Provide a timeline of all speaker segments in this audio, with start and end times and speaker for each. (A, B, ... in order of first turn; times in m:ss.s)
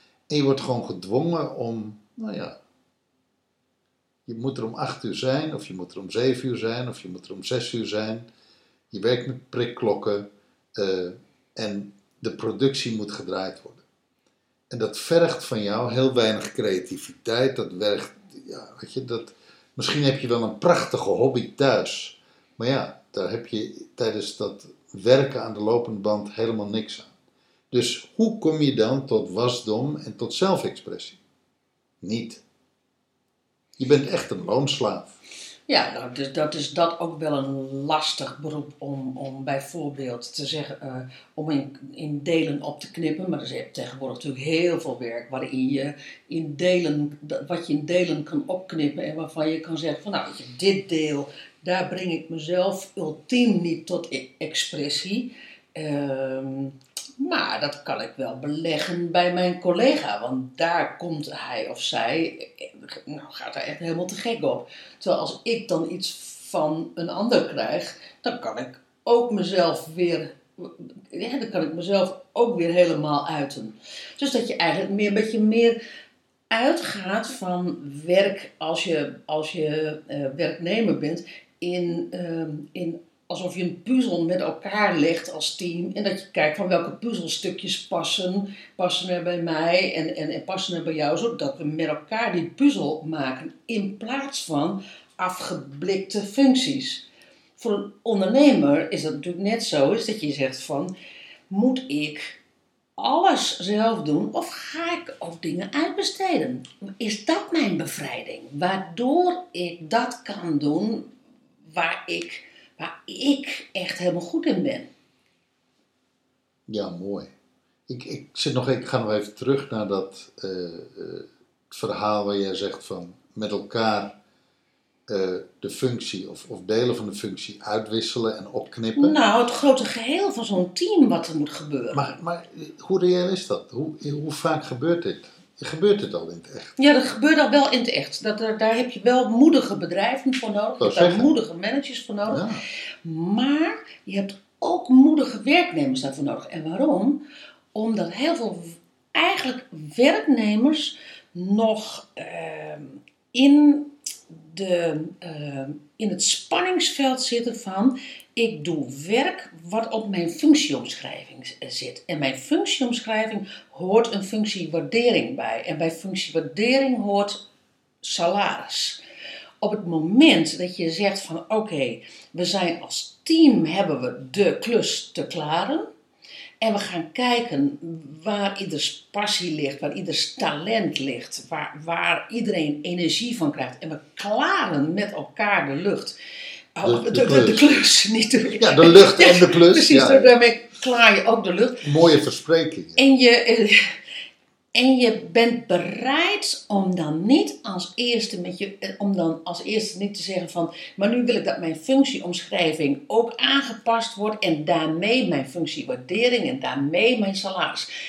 0:00.3-0:02.6 A
0:04.2-0:08.3 A
0:08.9-0:13.8 A
0:14.7-0:27.1 A
0:27.7-0:31.2 A
0:32.0-0:32.4 A
0:33.8-0:35.1 A
0:35.7-1:15.8 B
1:16.5-1:37.0 B
1:37.6-1:40.9 B
1:41.5-1:42.4 B
1:43.0-1:51.1 B
1:51.6-1:54.9 B
1:56.7-1:57.3 A
1:57.9-2:04.2 A
2:05.1-2:09.2 A
2:09.0-2:12.1 B
2:11.9-2:16.7 A
2:16.8-2:22.5 B
2:20.8-2:21.3 A
2:22.3-2:22.6 A
2:23.0-2:27.2 B
2:27.7-2:47.4 B
2:48.0-2:49.0 B
2:49.6-2:55.8 B
2:56.6-3:06.2 B
3:06.8-3:11.9 B
3:06.8-3:07.8 A
3:08.6-3:10.3 A
3:11.8-3:13.0 A
3:13.0-3:13.9 B
3:14.7-3:27.9 B